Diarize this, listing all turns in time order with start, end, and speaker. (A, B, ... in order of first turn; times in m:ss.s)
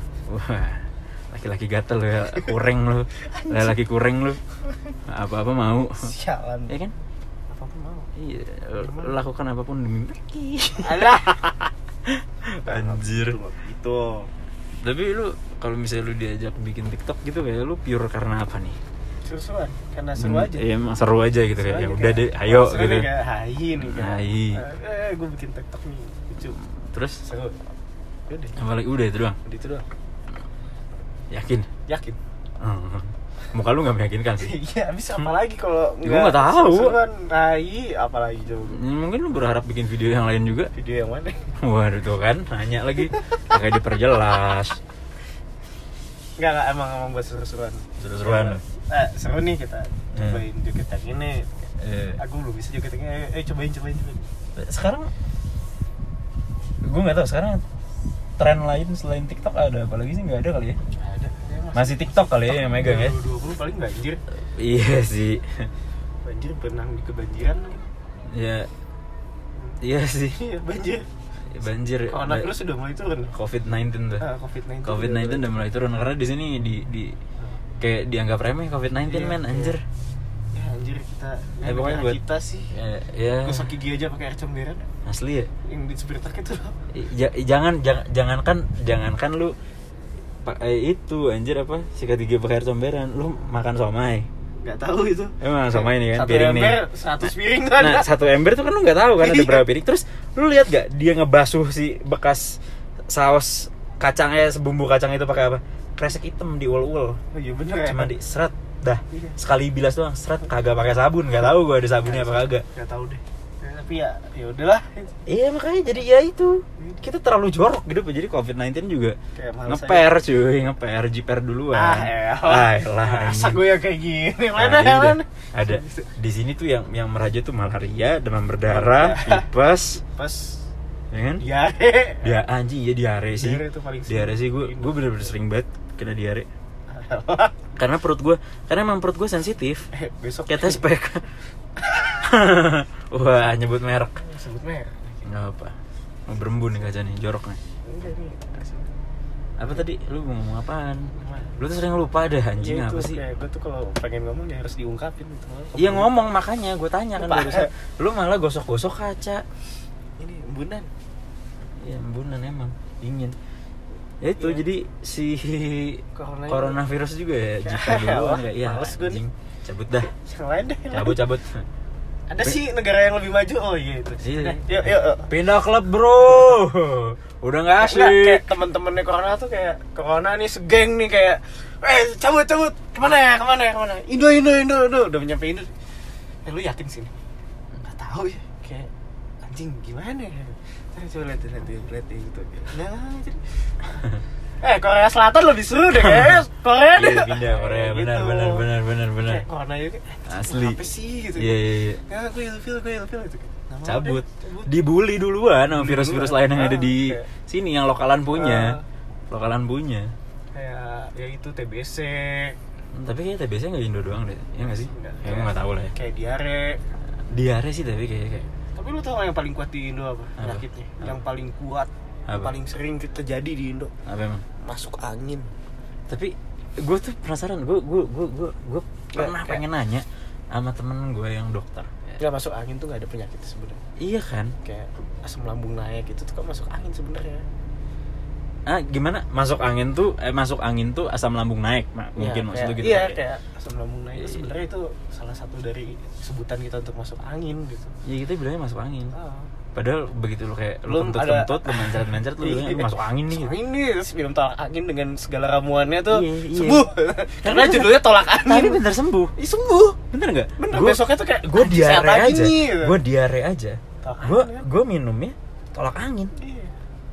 0:00.3-0:04.4 A
0:03.2-0:03.8 B
0:05.1-0:06.1 A
0:06.0-0:06.8 B
0:06.7-0:06.9 A
0:07.5-0:08.1 B
0:08.2-0:11.4 A
0:08.8-0:09.1 B
0:10.8-0:11.5 B
0:12.1-0:13.4 A
0:12.6-0:14.3 B
0:14.8-0:18.8 A
0:19.2-0:20.7 B
0:20.2-0:23.1 A
0:21.6-0:26.6 B
0:23.8-0:24.6 A
0:26.7-0:27.2 A
0:27.2-0:27.6 B
0:28.3-0:28.6 B
0:28.6-0:29.4 A
0:29.4-0:29.8 B
0:31.3-0:31.7 A
0:31.9-0:32.2 B
0:32.6-0:34.5 A
0:34.4-0:38.8 B
0:36.0-0:37.0 A
0:38.7-0:40.7 A
0:40.7-0:41.5 B
0:41.6-0:44.8 A
0:46.4-0:51.6 B
0:48.0-0:48.6 A
0:50.1-0:50.4 A
0:51.8-0:52.2 A
0:52.2-0:54.3 B
0:54.6-0:55.1 A
0:56.8-0:57.6 A
0:58.4-1:00.8 A
1:01.0-1:04.2 B
1:01.7-1:03.2 A
1:04.5-1:05.7 A
1:06.2-1:07.9 B
1:08.3-1:08.7 A
1:09.6-1:11.1 B
1:09.8-1:10.4 A
1:11.5-1:12.5 A
1:12.1-1:13.3 B
1:13.3-1:14.2 A
1:14.2-1:15.5 B
1:14.8-1:17.2 A
1:17.8-1:19.8 A
1:19.0-1:19.8 B
1:20.5-1:22.7 B
1:21.6-1:22.2 A
1:22.7-1:23.7 A
1:23.4-1:24.9 B
1:25.0-1:25.5 A
1:25.6-1:26.8 B
1:26.9-1:29.5 A
1:30.4-1:34.3 A
1:34.6-1:38.1 B
1:35.4-1:36.8 A
1:37.7-1:42.6 A
1:39.2-1:39.7 B
1:43.1-1:47.2 A
1:47.3-1:48.1 B
1:47.8-1:52.6 A
1:49.1-1:49.4 B
1:52.0-1:55.2 B
1:55.2-2:03.6 A
1:56.8-1:57.0 B
1:59.3-2:00.1 B
2:01.7-2:06.1 B
2:04.6-2:10.0 A
2:08.7-2:09.5 B
2:10.1-2:10.6 B
2:11.1-2:11.4 A
2:11.4-2:12.4 B
2:12.2-2:16.5 A
2:13.3-2:15.2 B
2:16.9-2:17.6 B
2:17.7-2:19.9 A
2:19.9-2:20.8 B
2:20.5-2:21.3 A
2:22.2-2:24.2 A
2:24.2-2:25.3 B
2:25.2-2:25.7 A
2:26.3-2:27.6 A
2:27.8-2:28.9 B
2:29.6-2:33.2 A
2:31.2-2:31.6 B
2:32.6-2:36.1 B
2:35.8-2:39.4 A
2:37.2-2:37.7 B
2:40.2-2:40.9 B
2:41.8-2:43.3 A
2:44.2-2:50.1 A
2:44.4-2:44.6 B
2:46.1-2:46.8 B
2:47.6-2:49.2 B
2:50.2-2:51.2 B
2:50.9-2:51.6 A
2:52.3-2:55.3 B
2:54.2-2:58.4 A
2:57.8-3:05.7 B
3:06.4-3:07.1 B
3:07.8-3:08.9 B
3:09.4-3:13.4 B
3:14.6-3:24.8 B
3:16.9-3:19.4 A
3:20.3-3:20.8 A
3:21.3-3:22.0 A
3:23.8-3:28.8 A
3:25.7-3:27.3 B
3:28.3-3:28.8 B
3:29.3-3:30.1 A
3:30.5-3:32.6 B
3:32.9-3:35.9 A
3:34.8-3:36.8 B
3:37.3-3:38.5 A
3:38.7-3:43.9 B
3:44.0-3:44.4 A
3:44.6-3:45.5 B
3:46.1-3:52.1 A
3:49.1-3:49.6 B
3:52.2-3:53.8 B
3:54.0-3:54.5 A
3:54.6-3:57.4 B
3:58.6-4:03.2 A
4:02.2-4:07.9 B
4:04.2-4:04.5 A
4:08.0-4:09.1 A
4:09.1-4:09.5 B
4:09.7-4:13.5 A
4:10.9-4:18.8 B
4:16.1-4:16.9 A
4:17.4-4:19.3 A
4:19.4-4:20.0 B
4:20.1-4:26.3 A
4:20.6-4:23.0 B
4:24.0-4:24.7 B
4:26.4-4:26.7 B